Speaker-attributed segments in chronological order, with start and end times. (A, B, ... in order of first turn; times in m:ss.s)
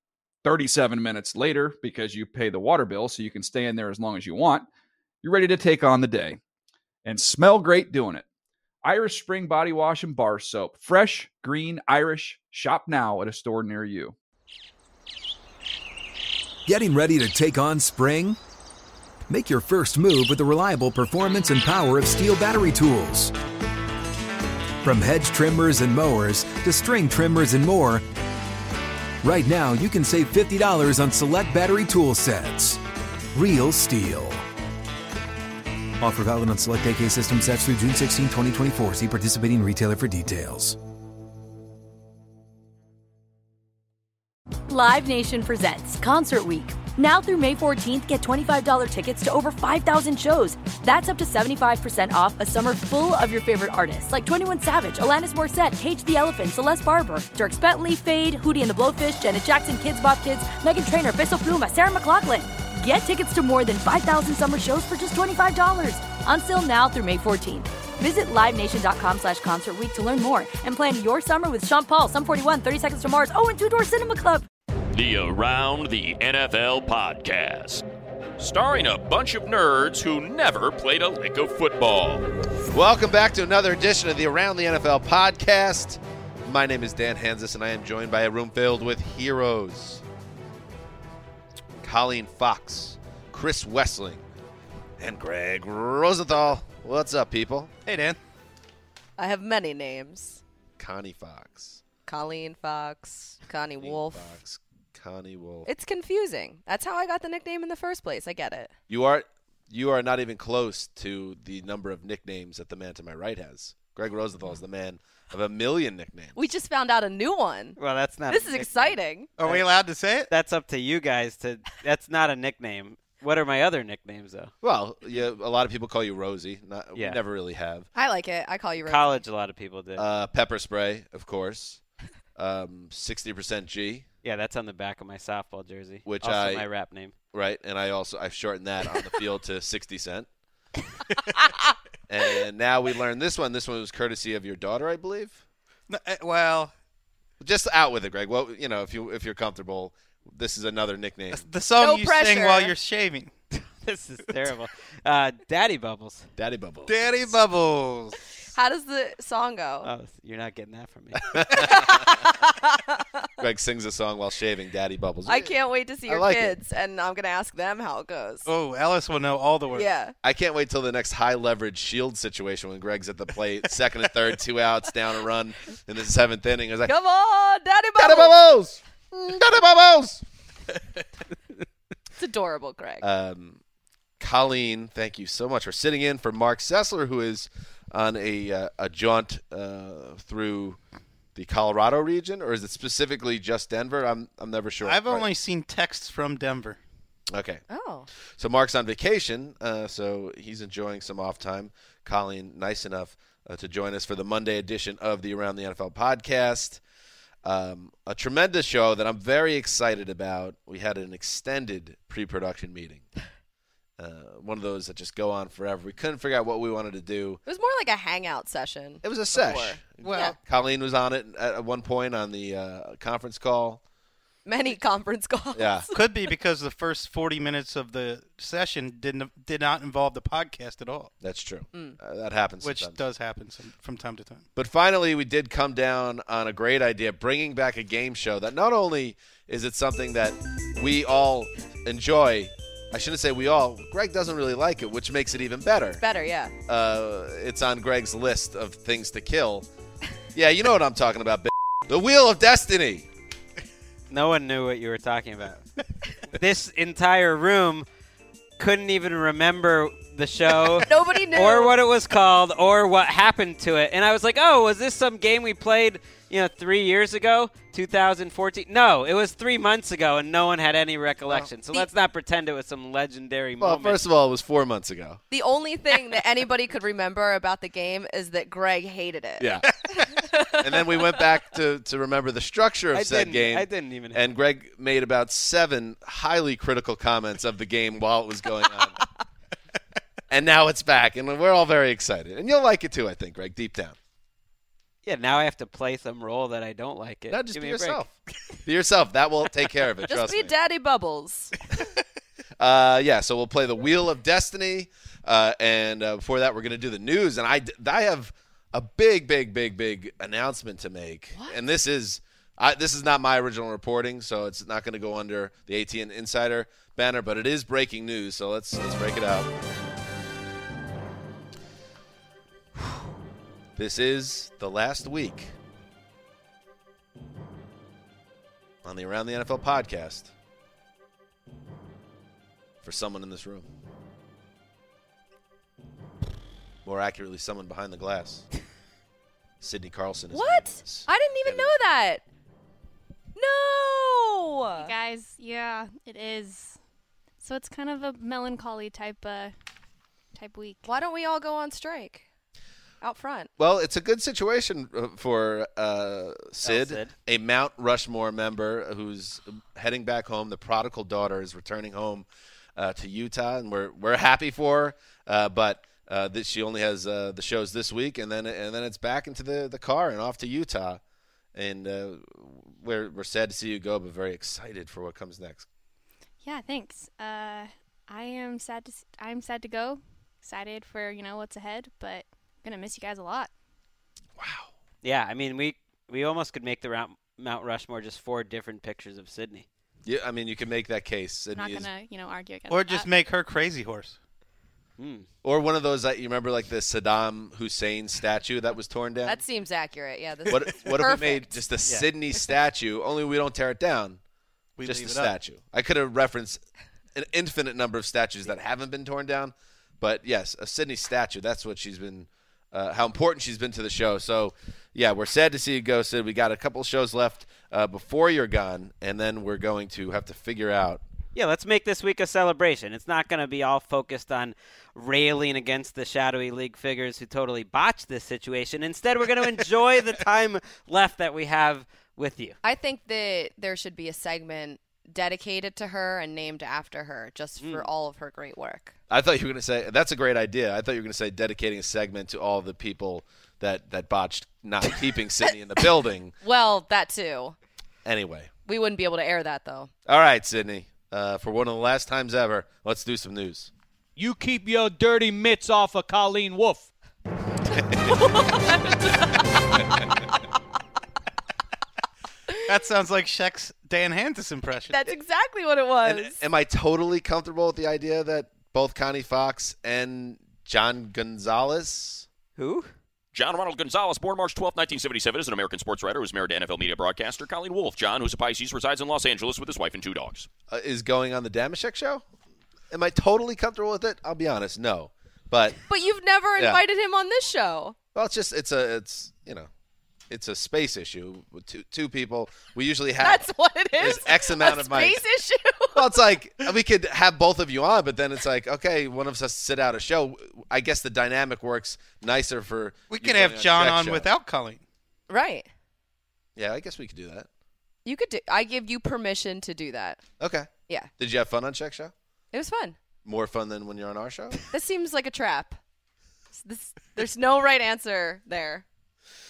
0:00.4-0:04.7 A
0:05.2-0:06.4 A
0:07.0-0:08.2 A
0:08.8-0:14.1 A
0:16.6-0:18.4 B
0:19.3-0:23.3 B
0:24.8-0:28.0 B
0:29.2-0:32.8 B
0:33.3-0:34.4 B
0:36.0-0:40.8 B
0:44.7-1:14.4 C
1:14.9-1:17.8 D
1:18.4-1:22.3 D
1:22.7-1:30.0 E
1:31.8-1:34.2 E
1:35.0-1:37.7 E
1:37.8-1:38.2 F
1:39.2-1:40.4 G
1:40.8-1:41.8 E
1:42.1-1:44.3 G
1:43.8-1:45.7 E
1:45.6-1:48.7 G
1:48.9-1:56.4 E
1:56.4-1:59.3 G
1:57.8-1:59.6 H
1:59.4-2:00.3 F
2:00.3-2:04.5 H
2:04.6-2:07.9 E
2:08.0-2:09.2 G
2:08.8-2:10.1 H
2:10.0-2:11.8 E
2:12.4-2:14.0 E
2:14.2-2:17.1 H
2:16.0-2:16.6 E
2:17.3-2:20.3 E
2:22.1-2:25.4 E
2:25.9-2:26.7 F
2:27.4-2:31.4 E
2:31.3-2:33.3 F
2:31.8-2:32.7 G
2:33.5-2:36.3 H
2:36.4-2:37.4 E
2:36.9-2:38.2 F
2:38.5-2:39.9 G
2:39.8-2:41.2 H
2:41.3-2:42.1 E
2:41.5-2:43.3 G
2:43.4-2:45.5 E
2:45.2-2:48.5 G
2:46.0-2:46.6 E
2:48.4-2:49.9 F
2:49.7-2:50.1 G
2:50.2-2:56.9 E
2:56.8-2:58.4 G
2:58.0-3:00.2 E
3:02.2-3:03.0 G
3:03.0-3:03.6 E
3:04.2-3:10.8 E
3:11.3-3:15.3 E
3:14.8-3:16.8 F
3:17.3-3:17.6 E
3:17.7-3:18.1 G
3:18.4-3:26.8 E
3:27.4-3:33.0 E
3:34.0-3:37.4 E
3:37.4-3:40.4 G
3:39.0-3:43.8 E
3:40.0-3:40.4 F
3:44.4-3:46.0 G
3:45.5-3:45.9 E
3:45.9-3:51.1 F
3:51.2-3:53.0 E
3:52.6-3:54.4 F
3:54.6-4:06.0 E
4:06.0-4:06.5 G
4:06.7-4:09.7 E
4:10.3-4:13.1 E
4:14.1-4:15.6 H
4:16.3-4:17.8 H
4:18.6-4:34.0 H
4:20.8-4:21.7 G
4:33.6-4:35.2 E
4:35.3-4:41.2 G
4:39.4-4:39.7 E
4:40.5-4:49.0 E
4:42.9-4:44.2 H
4:50.3-4:54.0 E
4:55.0-4:58.0 H
4:57.3-4:58.1 E
4:58.6-5:00.5 E
5:00.1-5:01.6 G
5:02.6-5:19.5 E
5:23.8-5:25.5 E
5:28.8-5:30.3 E
5:32.8-5:33.7 E
5:36.8-5:38.4 E
5:39.6-5:41.8 E
5:40.3-5:42.2 G
5:43.3-5:44.9 G
5:44.8-5:46.8 I
5:47.4-5:49.5 I
5:50.3-5:50.8 I
5:50.8-5:52.2 G
5:53.0-5:53.5 G
5:53.6-6:11.0 E
5:56.6-5:57.1 H
6:11.5-6:15.6 E
6:16.4-6:23.5 I
6:24.4-6:24.7 E
6:25.0-6:29.6 H
6:30.0-6:31.9 E
6:31.5-6:33.1 I
6:32.7-6:34.2 F
6:35.0-6:35.2 H
6:35.4-6:39.4 E
6:39.2-6:41.6 G
6:40.5-6:44.2 E
6:44.8-6:45.3 F
6:44.8-6:46.6 E
6:47.1-7:01.0 E
7:01.3-7:12.6 H
7:12.6-7:18.9 G
7:17.6-7:17.9 H
7:19.1-7:26.3 E
7:26.4-7:27.6 G
7:28.0-7:28.5 E
7:28.6-7:29.9 G
7:30.0-7:33.7 E
7:34.2-7:36.9 J
7:37.9-7:38.1 E
7:38.1-7:39.1 G
7:42.7-7:45.0 F
7:44.9-7:46.4 G
7:46.0-7:52.3 E
7:52.6-7:52.9 H
7:53.3-8:00.5 D
8:00.7-8:02.2 E
8:02.9-8:05.8 E
8:05.9-8:08.0 G
8:08.1-8:09.7 E
8:10.3-8:13.4 E
8:13.2-8:16.0 G
8:14.0-8:15.2 E
8:15.9-8:24.3 E
8:23.1-8:24.8 F
8:25.3-8:25.7 G
8:26.6-8:27.5 E
8:28.0-8:30.2 G
8:30.4-8:32.1 E
8:32.5-8:33.0 G
8:33.2-8:34.6 E
8:34.7-8:35.8 G
8:36.5-8:38.8 G